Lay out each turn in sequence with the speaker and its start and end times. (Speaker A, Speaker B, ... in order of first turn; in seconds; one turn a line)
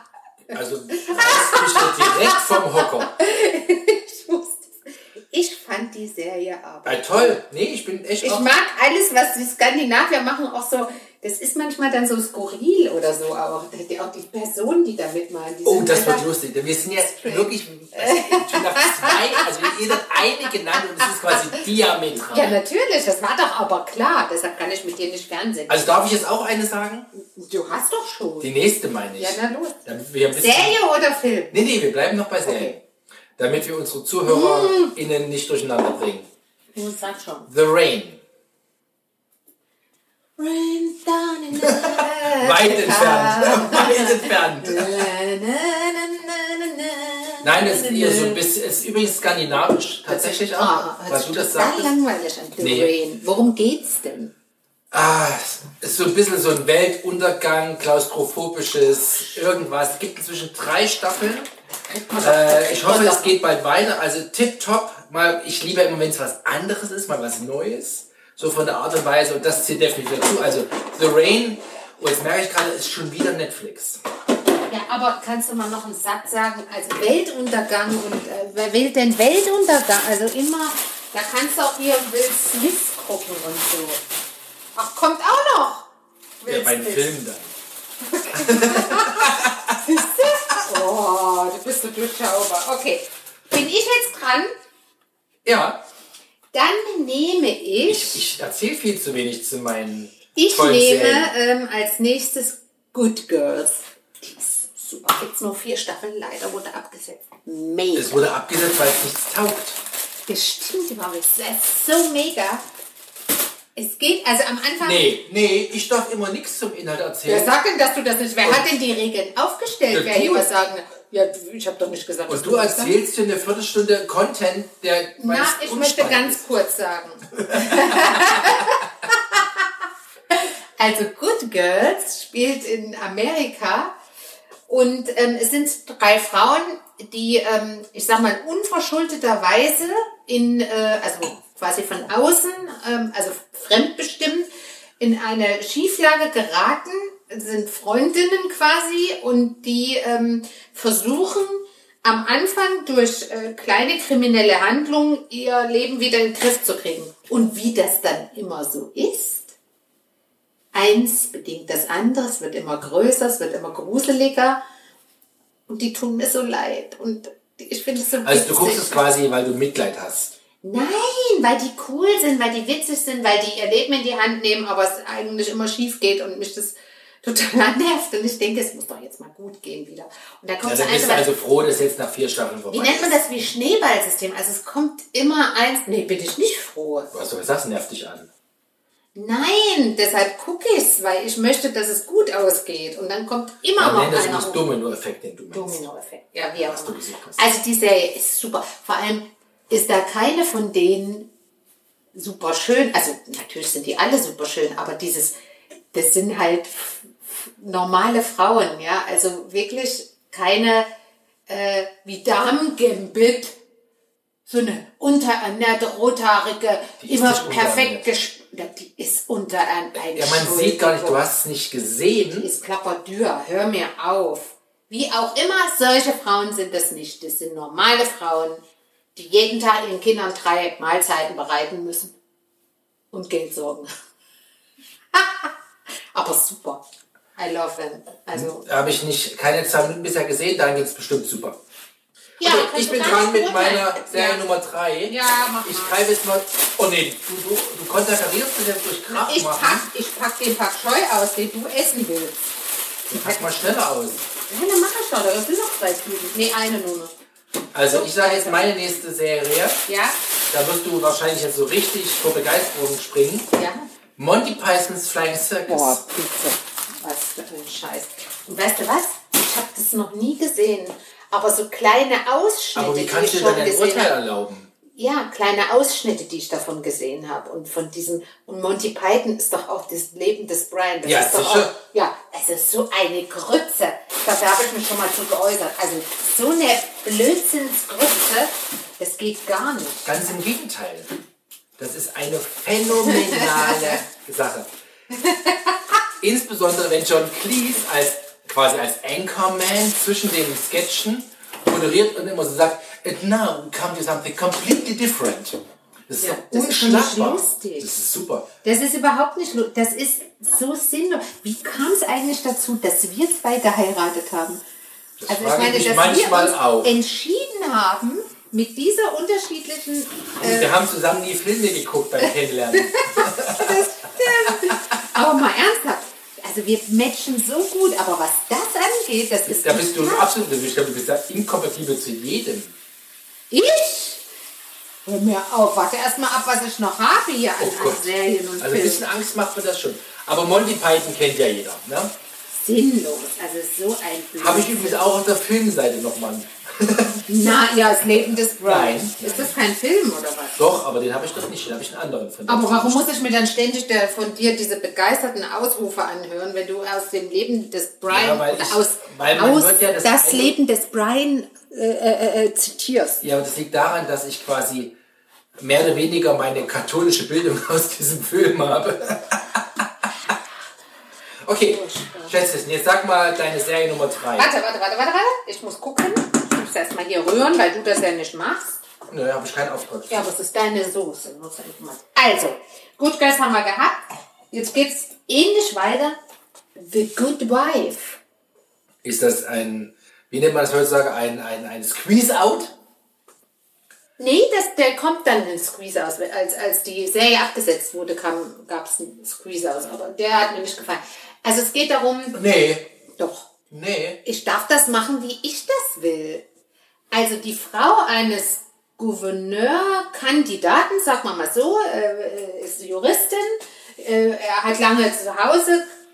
Speaker A: 0.5-3.1
Speaker B: 0.9-4.7
Speaker B: 5.3-7.4
Speaker A: 6.8-8.5
Speaker B: 8.2-16.2
Speaker A: 15.6-22.6
Speaker B: 17.0-19.7
Speaker B: 22.3-25.8
Speaker A: 25.7-27.1
Speaker B: 27.1-28.5
Speaker A: 28.4-30.8
Speaker B: 29.2-29.8
Speaker B: 30.4-31.5
Speaker A: 31.5-32.8
Speaker B: 32.4-32.8
Speaker A: 33.4-36.3
Speaker B: 34.2-34.9
Speaker B: 36.7-37.5
Speaker A: 37.5-38.2
Speaker B: 40.4-48.4
Speaker A: 41.6-45.1
Speaker A: 47.4-51.9
Speaker B: 50.0-54.3
Speaker A: 52.6-52.9
Speaker A: 54.9-61.5
Speaker B: 61.9-63.4
Speaker A: 62.2-74.0
Speaker B: 74.7-84.0
Speaker B: 84.8-85.9
Speaker B: 86.4-87.2
Speaker A: 86.5-87.5
Speaker B: 88.0-94.5
Speaker A: 88.3-89.8
Speaker A: 95.4-95.8
Speaker B: 96.5-98.2
Speaker A: 97.9-101.3
Speaker B: 100.3-108.2
Speaker A: 107.9-109.8
Speaker B: 110.3-112.6
Speaker B: 113.8-115.1
Speaker A: 114.8-117.5
Speaker B: 117.2-122.9
Speaker A: 118.4-118.7
Speaker A: 119.9-120.5
Speaker A: 122.3-126.4
Speaker B: 125.2-129.7
Speaker A: 127.3-128.7
Speaker B: 130.3-133.9
Speaker B: 134.7-144.5
Speaker B: 145.0-159.5
Speaker B: 160.7-164.6
Speaker B: 165.7-169.0
Speaker A: 168.2-170.3
Speaker B: 170.6-181.3
Speaker A: 180.6-183.2
Speaker B: 182.7-187.1
Speaker A: 187.1-188.3
Speaker B: 189.1-194.6
Speaker A: 193.8-195.8
Speaker B: 195.5-201.3
Speaker A: 196.6-197.4
Speaker B: 202.1-205.3
Speaker B: 205.9-210.9
Speaker B: 211.5-213.6
Speaker B: 214.5-221.2
Speaker A: 217.0-218.1
Speaker A: 220.2-222.5
Speaker B: 222.3-228.6
Speaker B: 229.1-232.1
Speaker B: 233.1-233.9
Speaker B: 235.1-235.5
Speaker B: 236.1-236.8
Speaker B: 237.3-238.7
Speaker A: 238.3-241.6
Speaker B: 242.4-244.4
Speaker A: 242.4-249.8
Speaker B: 245.1-246.0
Speaker B: 249.1-252.6
Speaker A: 253.1-254.2
Speaker B: 253.1-253.6
Speaker B: 254.5-257.1
Speaker A: 257.7-259.8
Speaker B: 257.9-258.7
Speaker B: 259.9-260.1
Speaker A: 260.5-263.5
Speaker B: 263.5-263.9
Speaker A: 264.2-266.0
Speaker B: 265.7-274.1
Speaker A: 272.7-274.7
Speaker B: 274.9-290.1
Speaker A: 281.0-281.7
Speaker A: 290.0-291.1
Speaker A: 291.8-294.7
Speaker B: 293.0-294.0
Speaker B: 295.2-295.6
Speaker A: 296.2-308.5
Speaker B: 306.2-307.9
Speaker B: 308.6-314.6
Speaker A: 315.2-316.9
Speaker B: 315.3-320.7
Speaker A: 320.4-323.9
Speaker B: 322.2-330.3
Speaker A: 324.4-324.7
Speaker A: 329.5-332.7
Speaker B: 333.5-334.2
Speaker B: 335.0-339.0
Speaker A: 337.6-342.1
Speaker B: 342.5-345.0
Speaker A: 344.4-347.2
Speaker B: 347.3-350.6
Speaker A: 348.2-349.6
Speaker A: 350.6-353.1
Speaker B: 352.5-363.2
Speaker A: 358.1-360.5
Speaker A: 363.2-364.9
Speaker A: 365.6-369.6
Speaker A: 371.4-374.5
Speaker B: 371.6-372.4
Speaker B: 374.4-378.8
Speaker A: 379.1-380.3
Speaker B: 380.1-386.2
Speaker B: 386.8-388.2
Speaker A: 389.0-392.7
Speaker B: 394.2-402.4
Speaker A: 402.3-402.8
Speaker B: 403.2-403.5
Speaker A: 403.7-404.2
Speaker B: 404.2-406.4
Speaker B: 407.1-415.8